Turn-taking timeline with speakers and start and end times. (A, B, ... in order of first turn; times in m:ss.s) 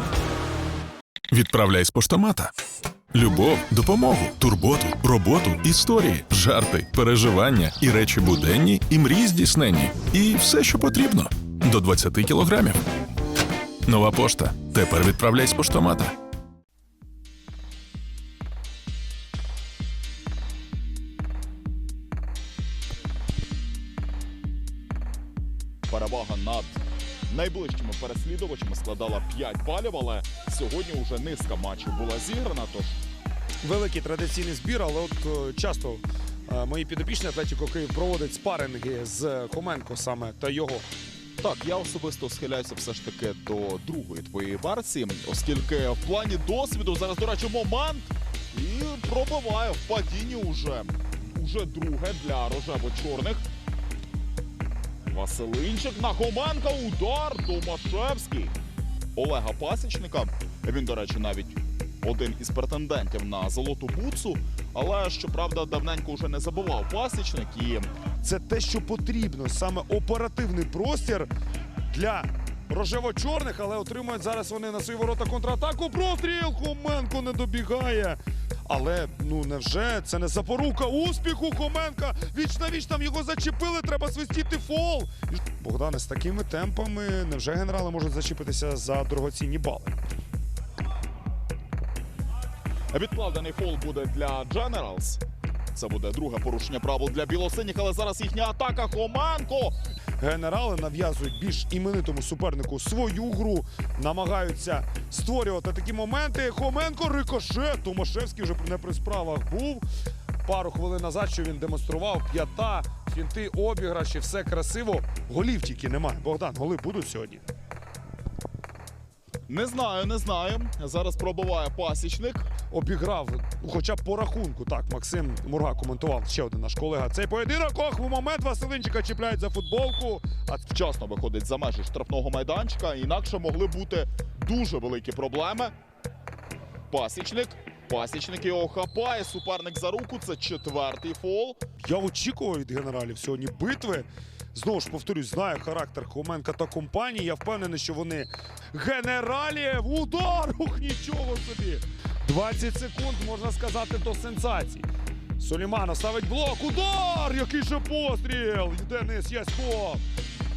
0:01.3-0:02.5 A
0:03.1-0:12.8 A
0:13.9-0:16.2 A
0:25.9-0:33.0 B
0:33.6-0:40.9 C
0:41.4-0:53.4 B
0:55.1-0:58.6 B
0:59.1-1:07.9 B
1:08.2-1:11.3 C
1:11.9-1:30.0 C
1:32.9-1:35.2 B
1:35.7-1:39.7 B
1:40.2-1:49.8 C
1:50.4-1:57.4 C
1:59.5-2:02.5 B
2:02.7-2:10.8 C
2:10.7-2:15.7 B
2:16.9-2:21.6 B
2:21.8-2:34.9 C
2:35.4-2:40.0 C